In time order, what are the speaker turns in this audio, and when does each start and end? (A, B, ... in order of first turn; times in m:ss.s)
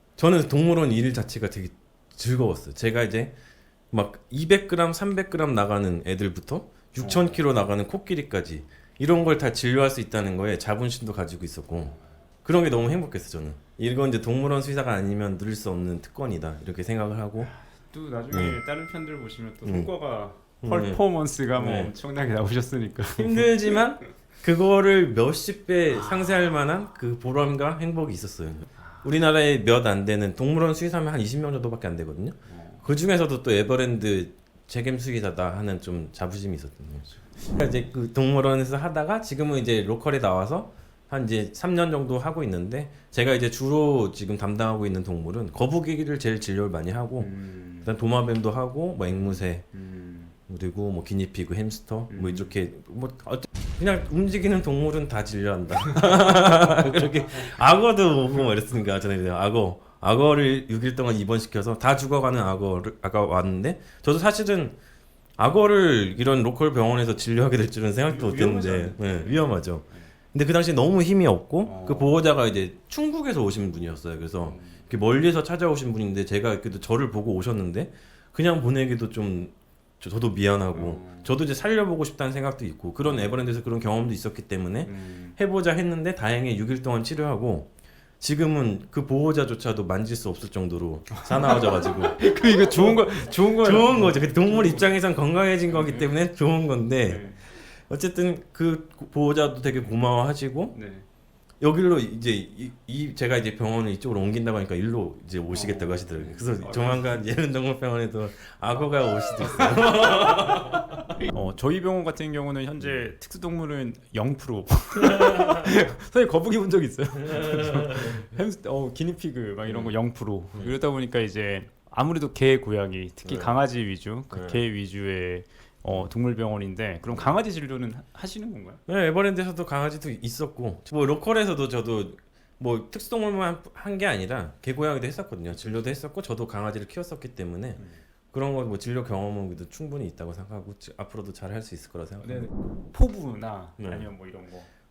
0:00.2-0:03.3 A
0:03.9-0:17.5 A
0:07.0-0:07.5 B
0:17.4-0:23.8 B
0:18.3-0:18.6 A
0:19.6-0:19.9 A
0:20.6-0:21.0 A
0:21.5-0:21.9 A
0:23.2-0:47.3 A
0:25.9-0:26.7 B
0:28.8-0:29.1 B
0:32.5-0:32.8 B
0:47.2-0:47.9 B
0:47.8-0:49.6 A
0:49.1-0:50.3 B
0:50.5-1:04.8 A
0:52.1-0:52.6 B
0:55.9-0:57.5 B
1:05.4-1:32.2 A
1:08.1-1:10.1 B
1:11.6-1:12.2 B
1:14.4-1:14.9 B
1:20.7-1:21.3 B
1:23.0-1:23.5 B
1:24.8-1:25.4 B
1:31.2-1:35.0 B
1:32.8-1:40.8 A
1:35.7-1:36.1 B
1:37.0-1:37.4 B
1:40.7-1:41.1 B
1:41.6-1:51.0 A
1:45.5-1:47.2 B
1:49.4-2:08.8 B
1:55.2-1:55.6 A
1:57.2-1:58.2 A
1:59.7-1:59.9 A
2:03.2-2:03.6 A
2:04.3-2:04.6 A
2:08.9-2:22.4 A
2:17.8-2:18.0 B
2:22.2-2:24.7 B
2:23.8-2:24.1 A